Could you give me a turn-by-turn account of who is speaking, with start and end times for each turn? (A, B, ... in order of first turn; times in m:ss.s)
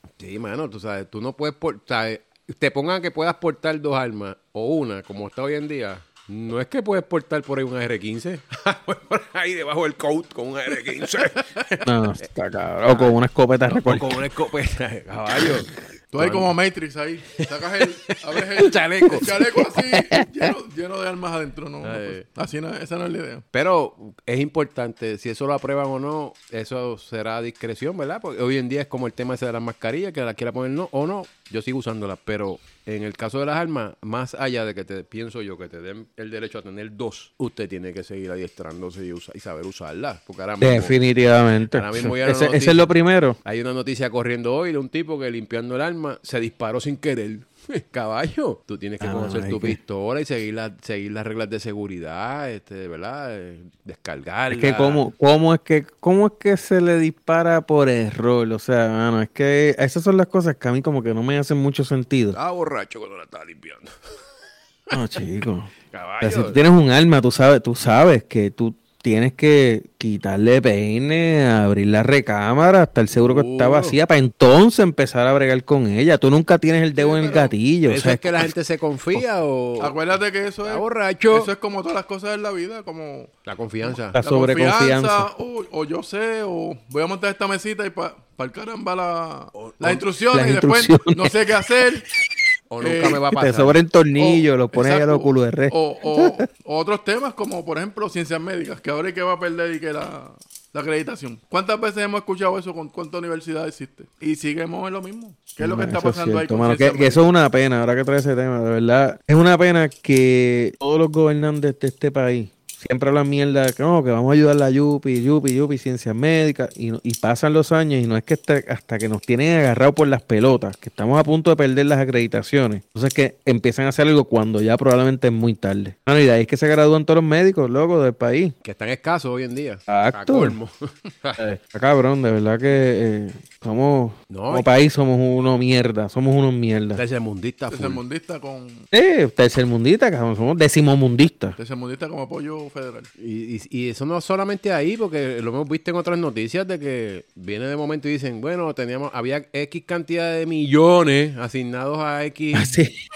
0:00.2-0:11.8 A
0:11.8-0:14.2 B
0:12.9-0:13.1 A
0:13.7-0:16.5 A
0:16.1-0:23.4 C
0:17.4-0:19.5 A
0:19.8-0:20.3 B
0:21.8-0:22.2 A
0:23.5-0:41.0 A
0:40.6-0:43.4 B
0:41.7-0:42.9 A
0:43.4-0:55.0 A
0:49.0-0:49.8 B
0:54.5-1:02.4 B
1:02.3-1:03.9 A
1:04.9-1:18.4 B
1:05.9-1:06.6 A
1:13.1-1:14.0 A
1:17.0-1:17.5 C
1:17.9-1:20.0 A
1:19.8-1:23.3 C
1:20.6-1:21.5 A
1:23.5-1:24.2 A
1:23.8-1:32.1 C
1:24.2-1:25.3 B
1:29.6-1:30.0 A
1:30.3-1:31.4 B
1:32.7-1:33.8 A
1:32.8-1:33.3 C
1:33.3-1:36.4 B
1:34.2-1:47.3 C
1:45.6-2:08.6 B
2:08.6-2:11.4 A
2:09.9-2:10.6 B
2:11.4-2:17.0 B
2:14.3-2:14.7 A
2:17.0-2:18.0 A
2:17.7-2:18.9 C
2:18.9-2:21.6 B
2:21.6-2:23.1 C
2:23.2-2:32.8 A
2:32.5-2:33.0 B